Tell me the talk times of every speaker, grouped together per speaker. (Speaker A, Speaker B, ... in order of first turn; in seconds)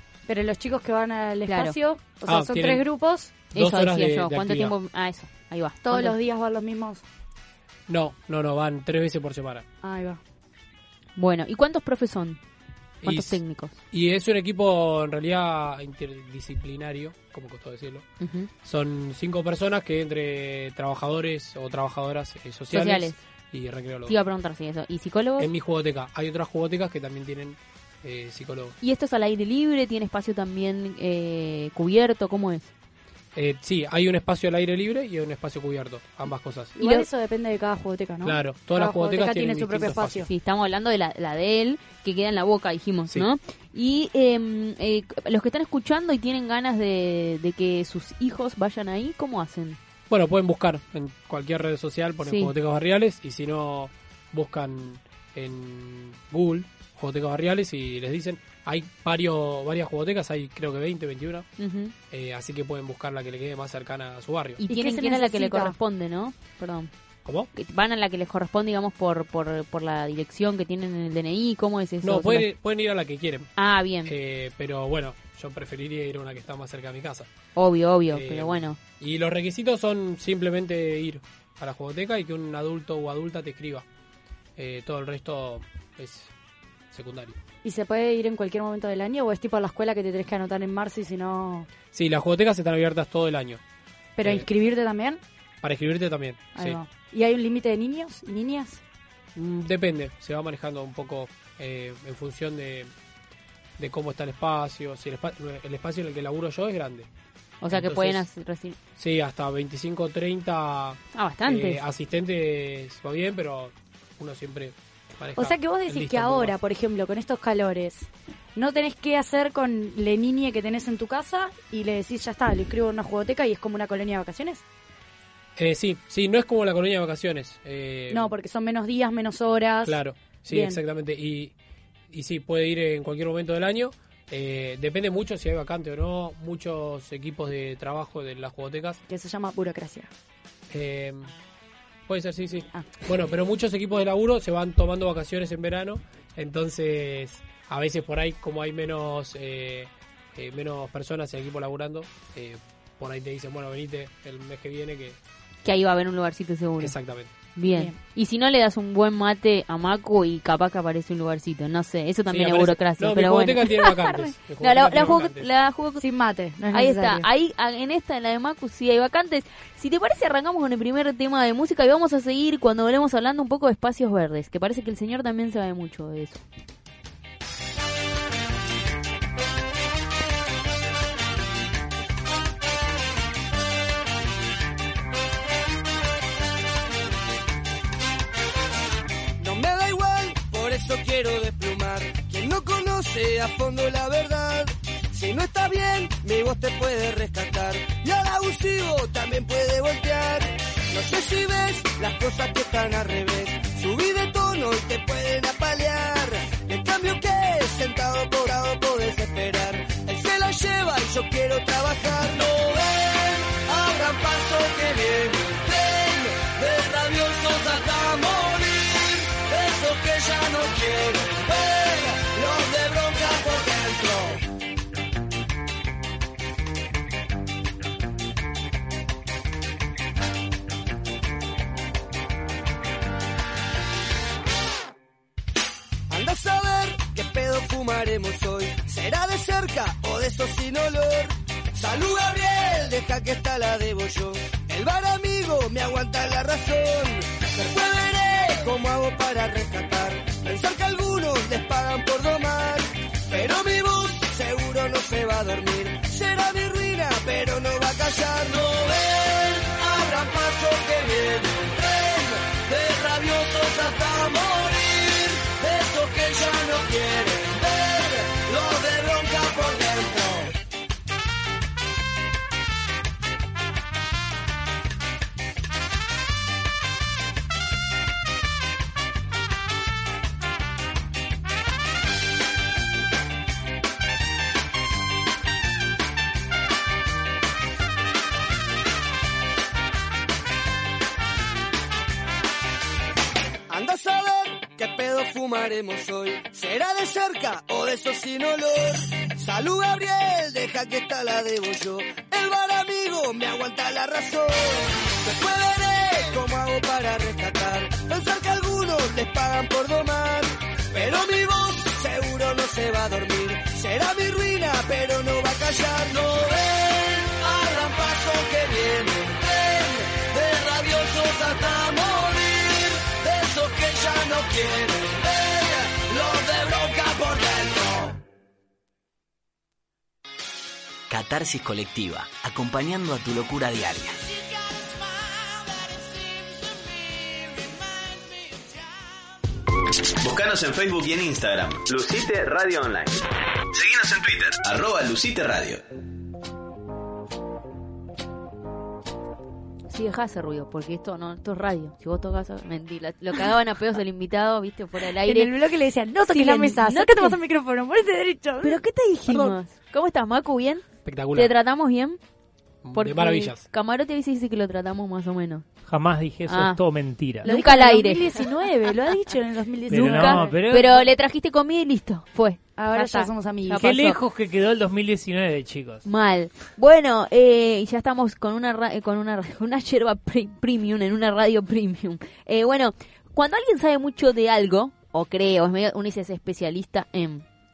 Speaker A: 0.3-3.3, 5.8-7.0, 9.8-10.2, 36.8-40.3, 64.7-65.8, 87.6-91.7, 94.2-95.2, 96.5-98.8, 115.4-124.6, 128.1-130.0, 130.5-130.8, 139.1-140.1, 157.7-157.9, 166.0-167.3, 355.2-359.5, 367.4-370.6, 372.8-374.0
Speaker B: 1.5-1.8, 3.5-6.2, 11.2-12.4, 13.0-13.8, 18.2-18.5, 22.7-23.2, 24.1-25.5, 28.8-32.7, 36.8-37.0, 40.3-49.8, 52.2-52.5, 61.6-61.9, 64.6-66.9, 67.5-72.5, 73.6-74.1, 77.5-78.8, 107.6-108.8, 111.1-111.8, 155.6-156.9, 157.6-166.0, 166.7-176.4, 349.9-355.5, 356.3-357.4, 358.6-362.2, 362.9-365.6, 366.4-366.8, 367.4-368.3, 369.9-374.2, 376.0-387.4
Speaker C: 2.2-2.8, 3.5-4.7, 7.9-9.6, 13.0-13.4, 13.9-18.1, 18.6-24.1, 25.4-28.8, 33.4-36.8, 38.2-40.3, 50.1-61.5, 62.1-64.6, 67.2-67.5, 72.0-73.5, 74.0-77.3, 78.1-83.8, 84.6-86.3, 86.9-87.4, 91.9-93.6, 94.2-94.5, 95.6-96.8, 99.4-102.9, 103.8-107.1, 107.7-108.2, 109.0-116.5, 125.6-128.3, 129.8-131.5, 132.1-139.0, 140.7-141.3, 142.1-155.2, 156.8-157.3, 162.3-165.5, 361.1-361.5, 362.8-363.6
Speaker D: 189.4-224.4, 236.1-270.5, 293.7-328.2, 334.7-338.6
Speaker E: 331.1-334.2
Speaker F: 340.2-345.8
Speaker G: 365.9-367.5, 369.9-371.1, 373.8-376.1